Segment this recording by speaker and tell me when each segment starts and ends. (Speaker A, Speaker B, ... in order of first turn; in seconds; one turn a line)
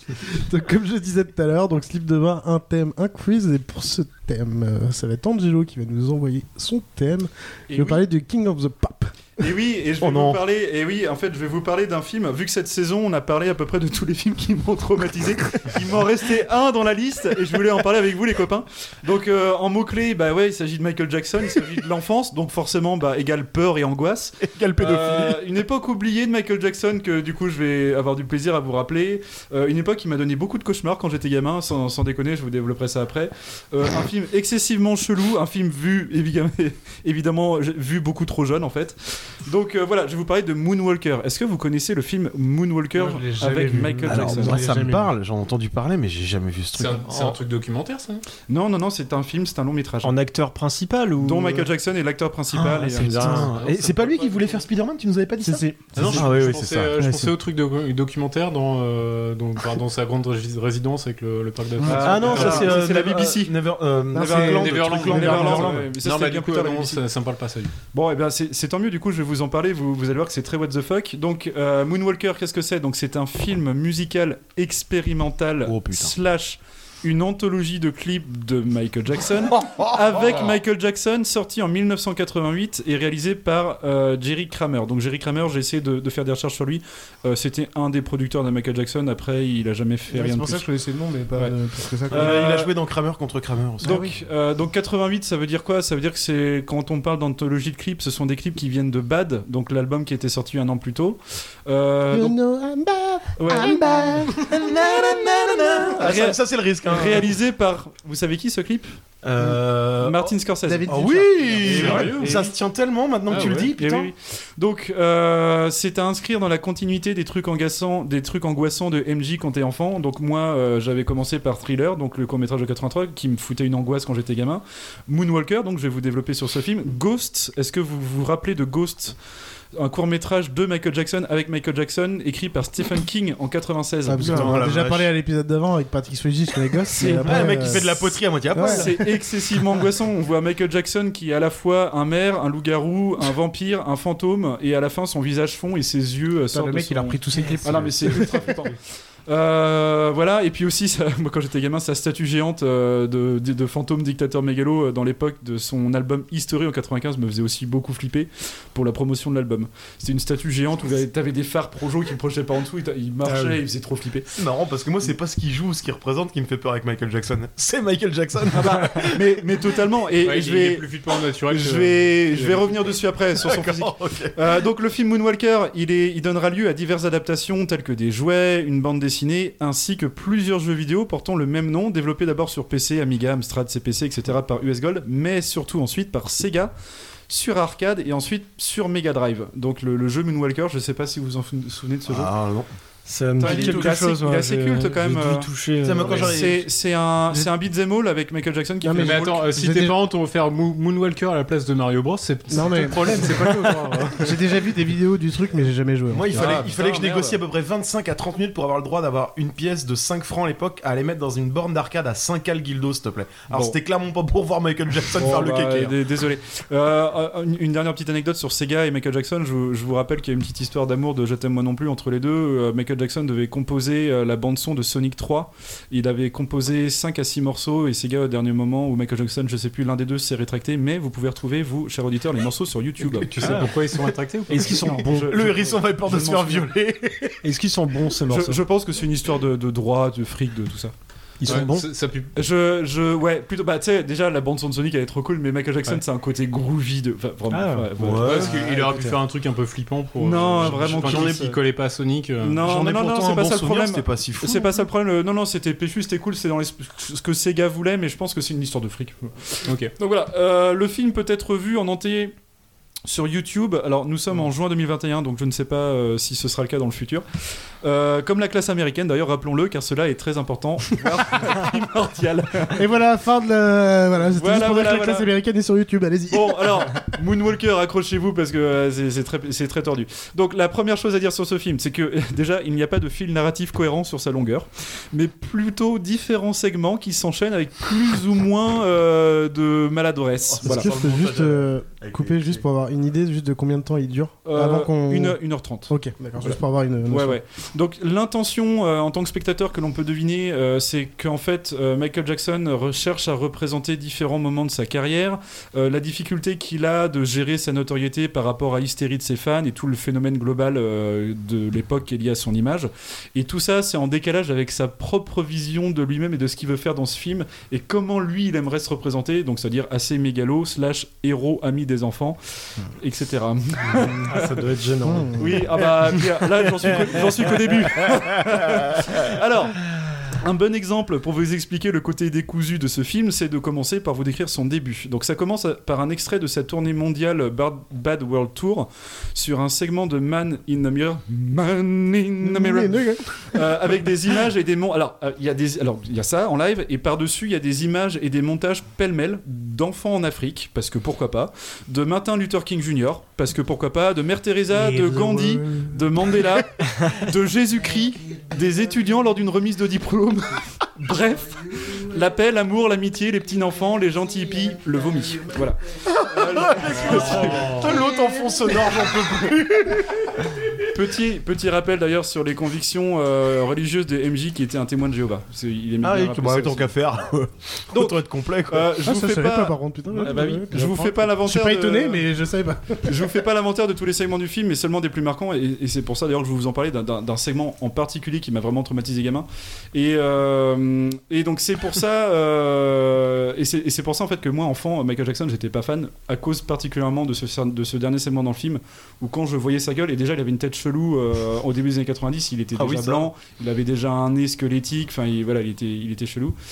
Speaker A: 0.2-9.1
Speaker B: 7.7-8.0
Speaker B: 9.4-44.6
Speaker C: 10.0-10.4
Speaker C: 24.4-25.4
Speaker A: 42.9-45.1
Speaker C: 44.1-47.1
Speaker D: 46.8-48.2
Speaker E: 47.1-47.4
Speaker B: 48.5-50.2
Speaker E: 50.0-51.7
Speaker B: 51.2-53.5
Speaker C: 52.5-56.9
Speaker E: 52.8-53.5
Speaker D: 53.0-54.2
Speaker B: 54.1-54.6
Speaker A: 55.4-56.3
Speaker D: 56.0-62.8
Speaker E: 56.1-56.7
Speaker A: 57.0-57.4
Speaker A: 61.8-62.1
Speaker B: 61.9-63.6
Speaker C: 62.0-65.8
Speaker A: 64.1-65.9
Speaker B: 64.2-67.0
Speaker D: 64.3-67.7
Speaker B: 67.9-90.7
Speaker C: 75.7-76.1
Speaker C: 79.8-80.4
Speaker A: 90.1-92.5
Speaker B: 92.1-92.7
Speaker C: 92.1-94.1
Speaker B: 93.8-102.4
Speaker A: 93.8-94.1
Speaker A: 102.1-105.8
Speaker B: 103.4-103.8
Speaker C: 103.5-107.3
Speaker B: 106.0-109.0
Speaker C: 109.2-110.3
Speaker B: 110.0-111.2
Speaker A: 110.6-112.1
Speaker C: 110.9-114.1
Speaker D: 111.6-112.5
Speaker B: 111.7-112.1
Speaker D: 113.3-113.7
Speaker B: 113.3-129.2
Speaker B: 129.8-134.6
Speaker A: 134.1-139.2
Speaker C: 134.2-135.1
Speaker B: 136.9-137.8
Speaker C: 137.2-139.0
Speaker B: 138.7-148.7
Speaker A: 146.5-148.5
Speaker B: 149.3-164.3
Speaker C: 164.3-169.5
Speaker B: 168.5-170.9
Speaker D: 170.2-172.7
Speaker B: 171.5-186.7
Speaker C: 173.4-174.4
Speaker B: 187.3-192.3
Speaker C: 192.1-192.7
Speaker E: 193.1-196.5
Speaker B: 193.4-199.4
Speaker D: 193.5-193.9
Speaker C: 195.8-196.7
Speaker A: 198.8-200.0
Speaker D: 199.0-204.4
Speaker A: 202.5-206.6
Speaker C: 206.1-215.9
Speaker B: 206.3-207.4
Speaker D: 206.5-206.8
Speaker B: 213.5-213.8
Speaker B: 215.2-233.6
Speaker E: 233.1-233.8
Speaker D: 233.3-235.1
Speaker E: 234.5-235.4
Speaker B: 234.8-236.7
Speaker C: 235.2-237.4
Speaker E: 237.4-238.6
Speaker B: 238.3-240.9
Speaker E: 241.4-241.9
Speaker D: 241.4-242.3
Speaker B: 242.3-248.4
Speaker E: 247.5-249.2
Speaker C: 248.0-249.2
Speaker D: 248.2-252.6
Speaker B: 250.2-251.5
Speaker C: 250.6-251.5
Speaker B: 252.4-262.3
Speaker C: 252.6-254.8
Speaker D: 259.6-259.9
Speaker B: 263.1-267.2
Speaker B: 267.8-272.9
Speaker A: 272.7-277.1
Speaker B: 274.4-275.3
Speaker B: 276.3-290.9
Speaker C: 290.5-292.6
Speaker A: 290.6-297.4
Speaker B: 294.5-324.6
Speaker E: 323.9-325.7
Speaker A: 325.0-325.6
Speaker B: 325.4-367.9
Speaker A: 342.4-343.7
Speaker A: 355.0-355.9
Speaker C: 366.1-370.4
Speaker E: 367.1-368.0
Speaker B: 370.9-376.9
Speaker C: 376.0-378.9
Speaker B: 377.9-382.2
Speaker A: 379.0-383.4
Speaker B: 383.1-406.6
Speaker C: 402.8-403.3